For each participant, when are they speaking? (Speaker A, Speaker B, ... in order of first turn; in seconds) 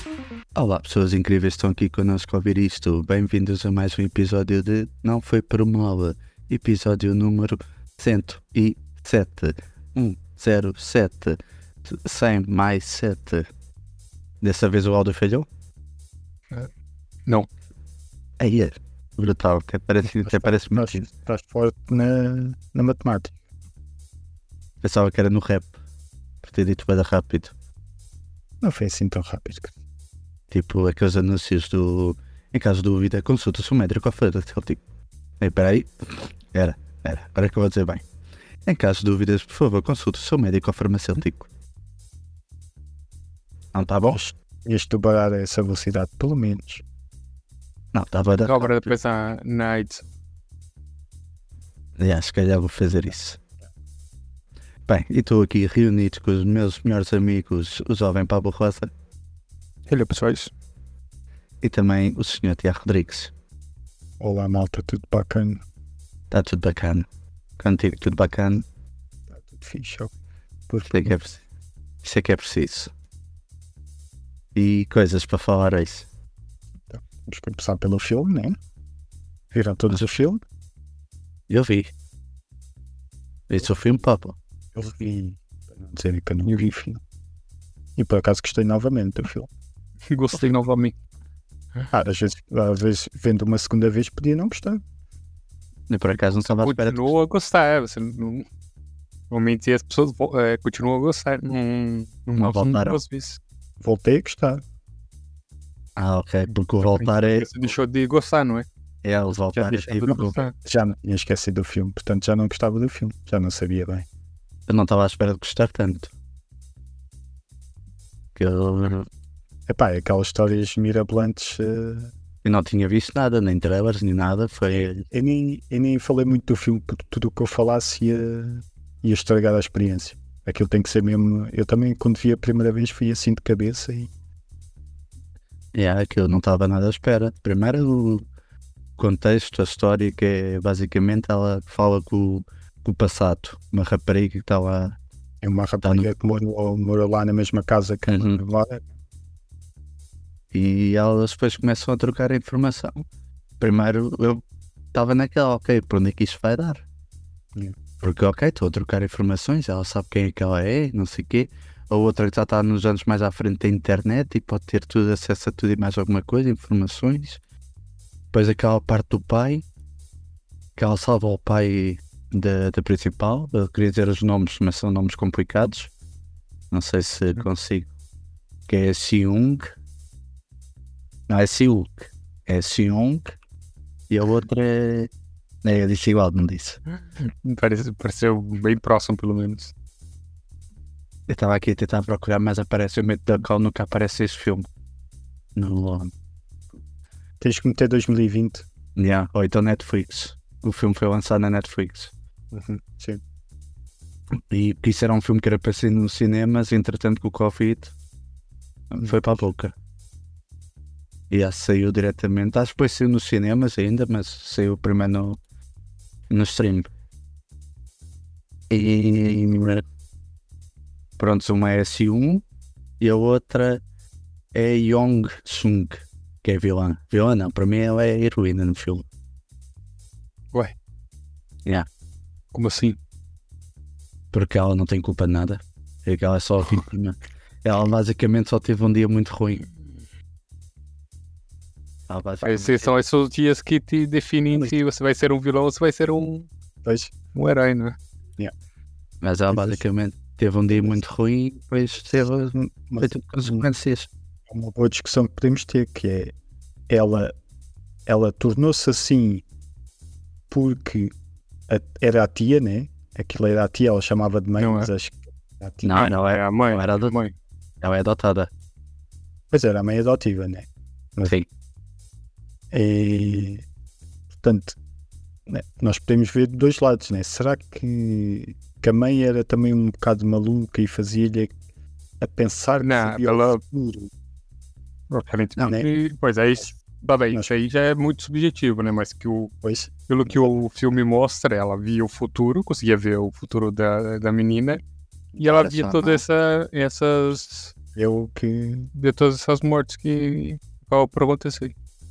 Speaker A: 0.5-13.5, 14.4-15.5, 18.4-21.0, 24.8-25.7, 26.4-27.5, 30.5-34.8, 35.4-38.0, 38.6-41.5, 43.7-44.2, 47.9-48.9, 52.0-53.4, 54.9-58.9, 61.6-63.3, 66.3-67.1, 67.6-68.6, 70.9-71.4, 72.0-72.9, 74.5-76.0, 81.5-81.9, 83.5-84.3, 95.9-97.1, 102.4-103.0, 106.0-107.5, 109.0-110.3, 114.7-116.1, 118.3-119.1, 122.4-125.0, 135.7-138.2, 139.0-144.9, 148.1-148.4, 150.5-153.0, 153.6-154.4, 154.9-156.8, 158.0-167.4, 168.3-169.6, 170.8-175.9, 176.7-177.9, 178.7-179.7, 181.3-183.3, 184.1-185.1, 185.6-186.8, 191.3-194.7, 195.6-196.1, 198.9-202.1, 204.5-207.9, 208.9-209.7, 211.3-215.4, 216.3-216.9, 218.7-219.8, 221.2-222.4, 223.0-223.8, 224.5-229.1, 234.3-239.7, 242.1-242.9, 249.2-254.1, 265.8-267.1, 267.8-268.5, 295.4-296.2
Speaker B: 20.2-23.3, 28.6-29.7, 44.1-46.8, 64.2-65.6, 69.3-70.1, 70.7-71.1, 76.9-78.6, 79.5-80.4, 84.7-87.0, 88.0-89.5, 91.9-94.8, 103.8-104.6, 110.1-114.0, 119.7-122.1, 125.1-134.1, 145.4-148.8, 197.4-198.7, 202.5-203.2, 246.8-247.1, 249.5-249.8, 250.7-251.0, 252.2-253.7, 254.5-256.3, 256.9-257.3, 258.1-259.4, 260.5-261.1, 261.7-266.0, 269.5-271.4, 272.7-273.6, 274.3-274.8, 275.5-281.5, 282.2-284.1, 289.6-289.9, 297.9-298.9
Speaker C: 48.4-50.0, 59.9-60.5, 90.1-90.9, 96.6-98.5, 99.3-103.4, 106.9-108.7, 109.6-110.5, 187.2-189.7, 232.5-233.0, 242.4-246.5, 247.3-247.9, 264.6-264.9, 266.0-267.3, 282.8-283.6, 285.1-289.5, 290.1-294.8, 295.4-297.7, 298.9-301.7